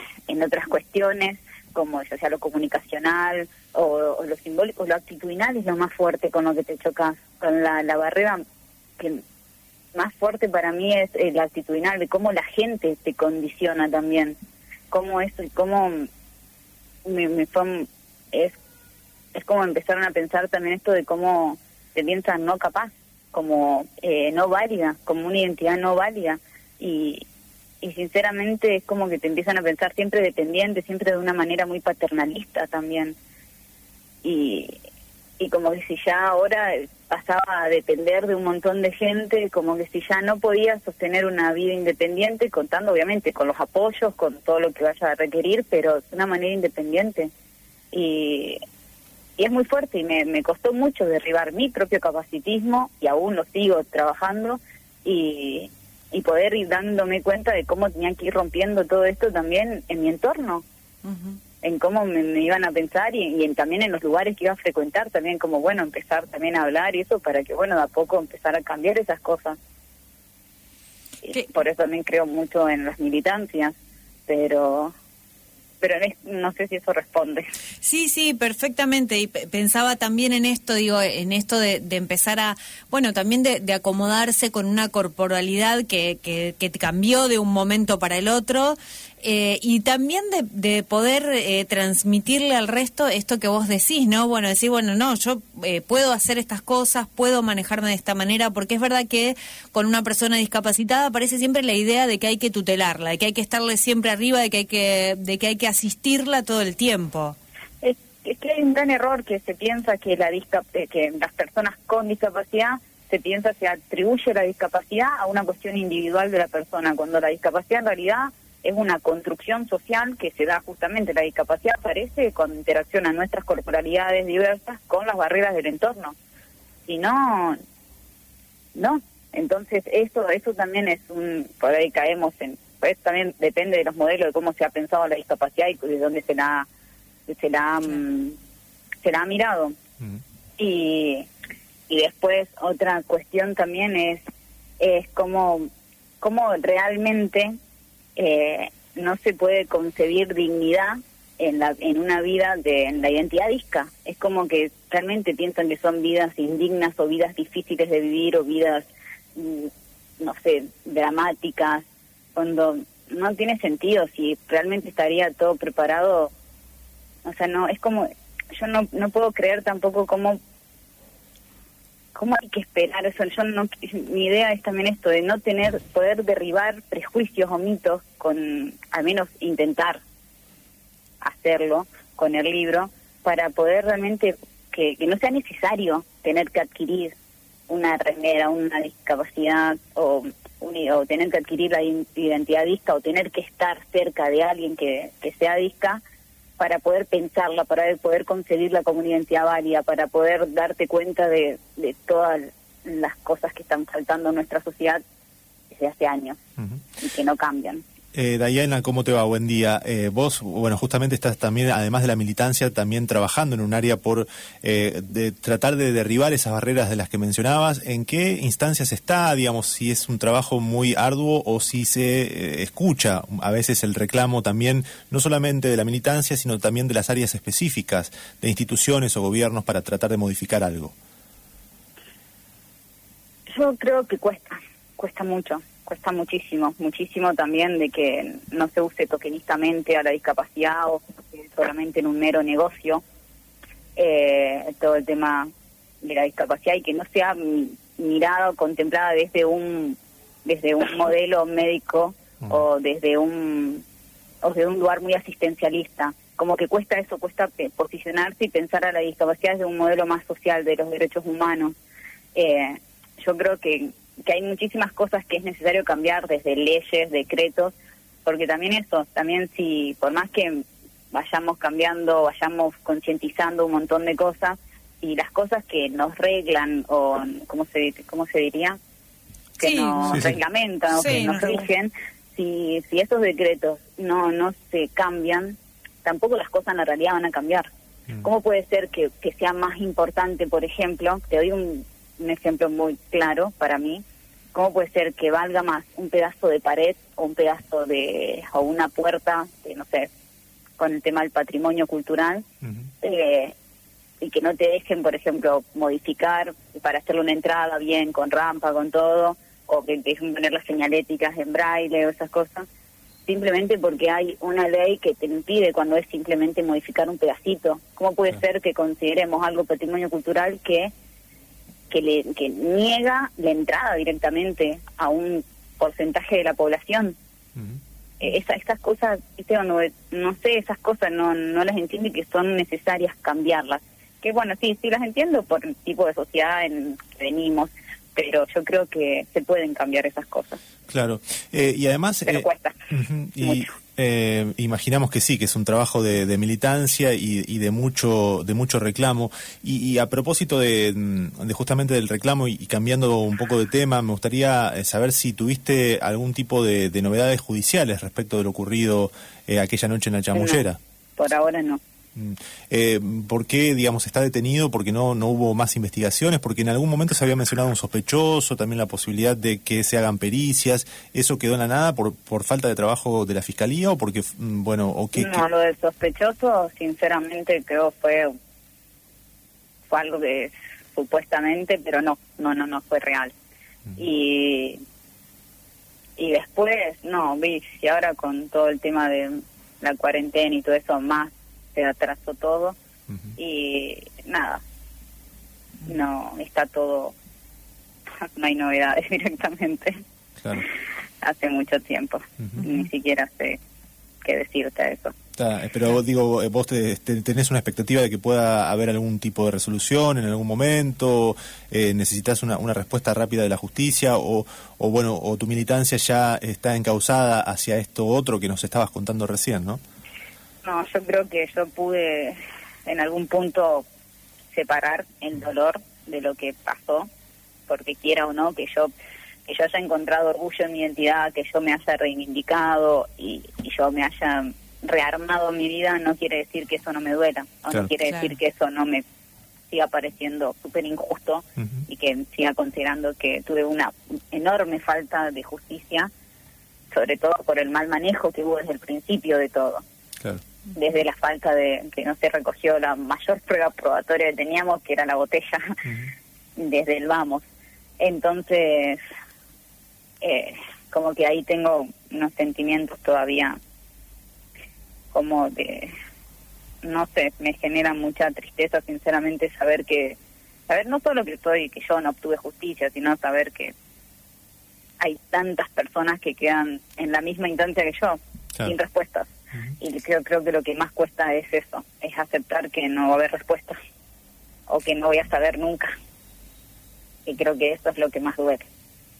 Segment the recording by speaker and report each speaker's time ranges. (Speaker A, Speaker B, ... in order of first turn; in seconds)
Speaker A: 0.3-8.4, 9.9-14.4, 14.9-16.1, 17.0-18.6, 19.3-27.2, 27.8-33.1, 34.2-34.8, 35.4-47.3, 47.9-48.6, 49.4-60.6, 61.6-69.6, 71.2-73.7, 74.3-74.9, 75.8-77.5, 107.8-126.1, 126.9-127.6, 128.7-136.7, 137.3-138.3, 139.0-139.8, 140.6-141.3, 141.9-144.2, 144.8-145.7, 146.2-147.6, 148.2-166.3, 167.2-170.4, 172.1-180.0, 181.2-187.1, 187.7-196.0, 196.6-205.0, 205.7-206.4, 207.0-207.8, 233.5-243.0, 243.9-253.8, 254.4-261.8, 262.3-267.7, 268.2-278.8, 279.6-287.7, 288.2-294.0, 294.5-300.1, 300.8-302.4, 303.0-303.5, 304.2-312.6, 313.2-320.9, 321.9-327.1, 328.2-340.6, 342.2-342.8, 360.3-360.6, 361.2-361.8, 375.1-378.3, 379.9-383.3, 384.0-384.8, 386.2-392.8, 393.4-394.6, 395.9-397.1, 398.2-400.0, 401.2-403.6, 404.2-405.1, 420.6-423.9, 424.5-427.1, 427.7-428.9, 429.4-439.0, 439.7-446.1, 446.9-449.8, 450.7-455.8, 456.6-457.4, 458.0-459.0, 460.2-463.6, 465.1-465.9, 466.8-470.2, 470.7-473.7, 475.0-483.8, 484.7-485.9, 487.2-488.7
Speaker B: 61.0-61.4, 77.8-107.4, 279.6-280.2, 281.0-281.6, 438.1-438.3
Speaker C: 208.1-230.9, 280.1-280.4, 340.9-360.8, 362.1-375.4, 400.4-400.6, 405.4-419.8